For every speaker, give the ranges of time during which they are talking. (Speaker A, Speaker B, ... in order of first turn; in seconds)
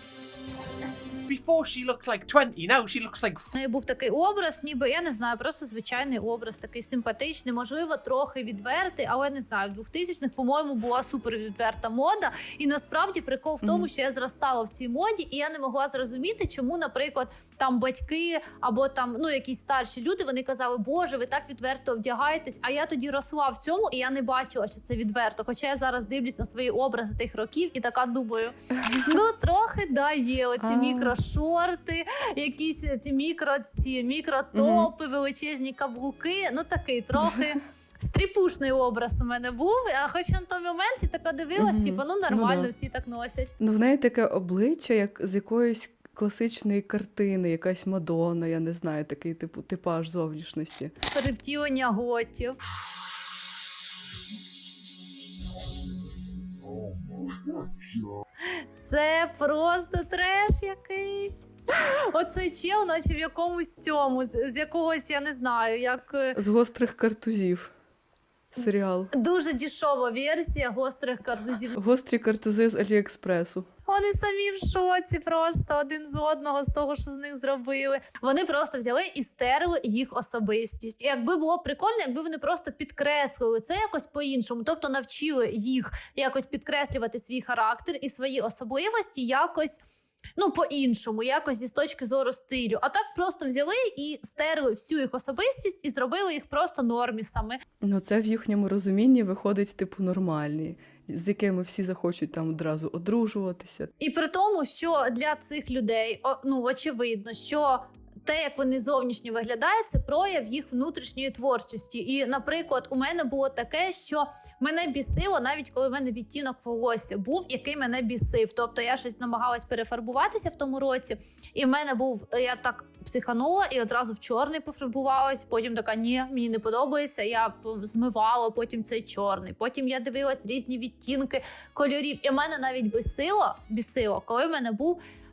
Speaker A: 1.3-3.4
Speaker B: 3.5-43.5, 51.1-52.6, 58.8-66.4, 69.1-71.8, 73.9-89.8, 90.4-97.6, 104.0-135.0
Speaker C: 13.6-13.9, 28.8-29.2, 30.6-31.2, 34.5-34.9, 41.6-42.7, 43.6-50.9, 66.3-67.7, 68.5-69.1, 71.8-73.7, 97.8-103.9